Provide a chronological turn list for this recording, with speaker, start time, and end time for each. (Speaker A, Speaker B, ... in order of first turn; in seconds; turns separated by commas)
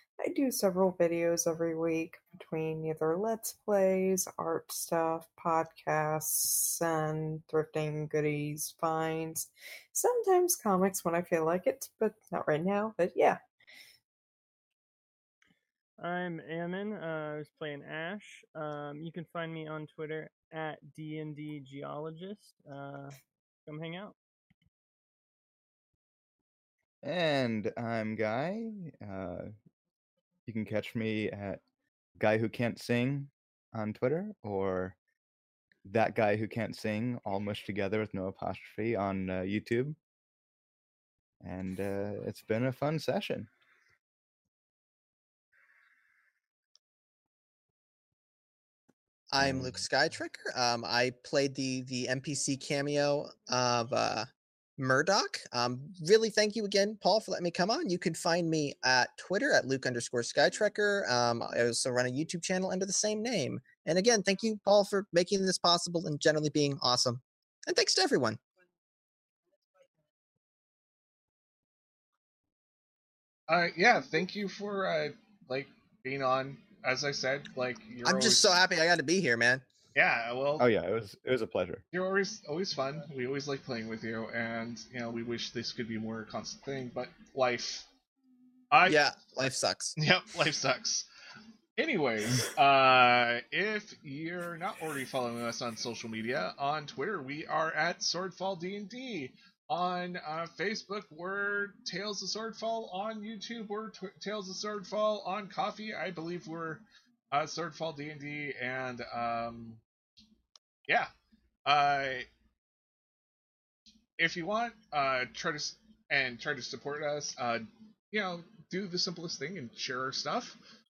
Speaker A: 0.2-13.4, Speaker B: 16.0-24.1, Speaker C: 27.0-29.5, Speaker C: 30.5-31.6, Speaker C: 32.2-35.0, Speaker C: 35.8-40.0, Speaker C: 41.4-43.5, Speaker D: 49.3-68.4, Speaker C: 49.4-49.8, Speaker E: 73.5-78.6, Speaker D: 78.0-79.6, Speaker E: 79.9-80.7, Speaker C: 80.6-81.8, Speaker E: 81.9-87.9, Speaker E: 88.7-89.0, Speaker D: 88.8-89.9, Speaker E: 90.0-91.1, Speaker E: 91.8-109.8, Speaker E: 111.7-112.3, Speaker E: 114.2-120.6